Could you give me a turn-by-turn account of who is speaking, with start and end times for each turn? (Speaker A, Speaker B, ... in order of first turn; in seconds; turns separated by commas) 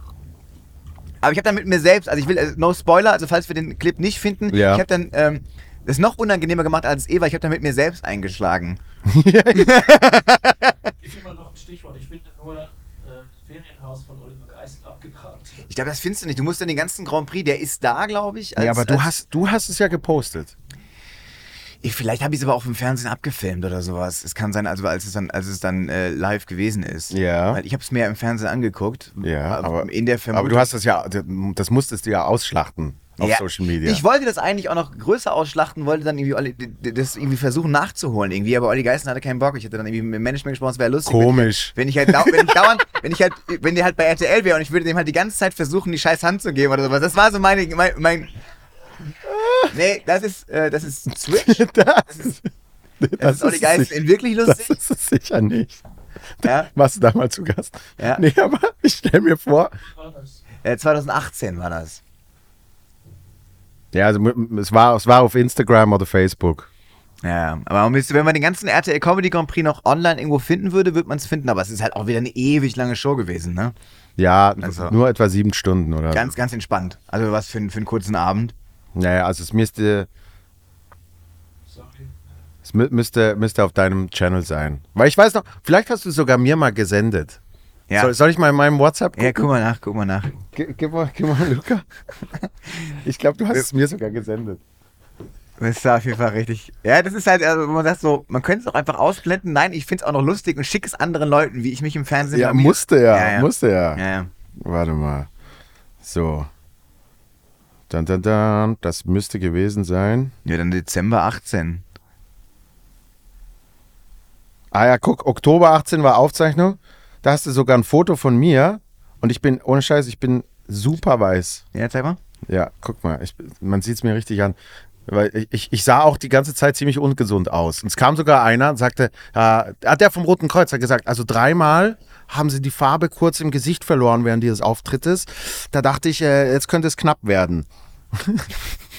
Speaker A: 1.2-8.8, Speaker B: 4.5-4.8, Speaker B: 9.1-10.2, Speaker A: 9.6-10.7, Speaker C: 11.0-15.7, Speaker A: 15.7-19.1, Speaker B: 18.6-20.5, Speaker A: 21.8-30.7, Speaker B: 27.1-27.6, Speaker B: 29.2-34.0, Speaker A: 33.2-48.3, Speaker B: 41.1-42.7, Speaker B: 49.2-49.7, Speaker A: 49.7-52.4, Speaker B: 51.3-52.4, Speaker B: 53.0-55.8, Speaker A: 53.2-54.8, Speaker B: 56.4-59.8, Speaker A: 56.4-56.7, Speaker A: 58.0-58.2, Speaker C: 59.9-60.4, Speaker A: 60.6-62.0, Speaker B: 63.9-66.7, Speaker A: 67.2-73.7, Speaker B: 74.2-76.3, Speaker A: 74.6-75.0, Speaker A: 76.1-78.5, Speaker B: 79.0-80.1, Speaker C: 81.7-82.1, Speaker B: 82.7-87.4, Speaker B: 88.0-89.5, Speaker A: 89.2-90.4, Speaker B: 90.5-91.8, Speaker B: 93.0-94.6, Speaker A: 95.6-104.3, Speaker B: 102.3-104.0, Speaker B: 104.6-105.3, Speaker B: 106.0-106.5, Speaker B: 107.9-110.3, Speaker A: 110.5-111.8, Speaker B: 114.7-121.6, Speaker A: 121.7-122.2, Speaker B: 122.5-124.6, Speaker B: 125.1-138.5